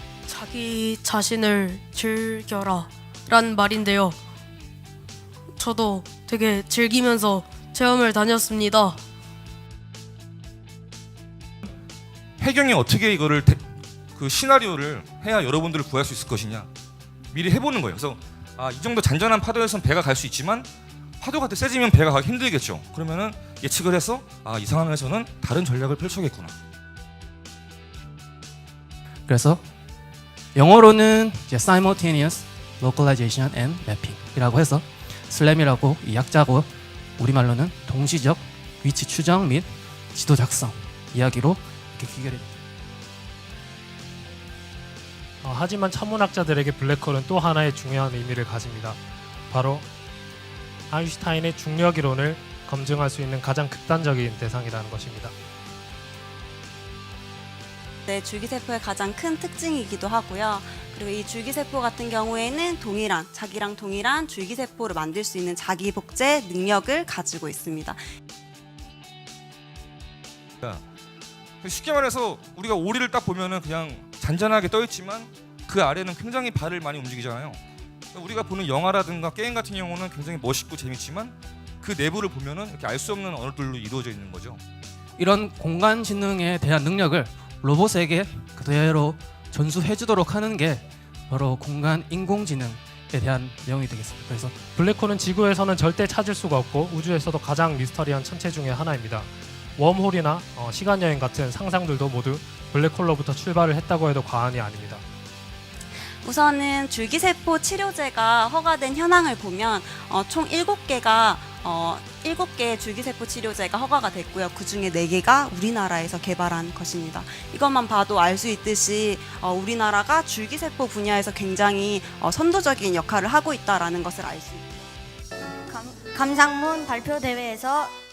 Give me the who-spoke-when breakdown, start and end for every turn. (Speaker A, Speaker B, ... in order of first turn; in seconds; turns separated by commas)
Speaker A: 0.3-4.2, Speaker A: 5.6-9.0, Speaker B: 12.4-13.6, Speaker B: 14.2-16.7, Speaker B: 17.3-20.7, Speaker B: 21.2-26.6, Speaker C: 29.3-29.6, Speaker C: 30.6-42.6, Speaker D: 45.4-49.0, Speaker D: 49.5-49.9, Speaker D: 50.9-55.3, Speaker E: 58.1-68.0, Speaker B: 71.6-77.6, Speaker B: 78.1-84.6, Speaker C: 85.2-94.6, Speaker D: 94.8-105.0, Speaker E: 106.2-124.7, Speaker F: 125.6-127.9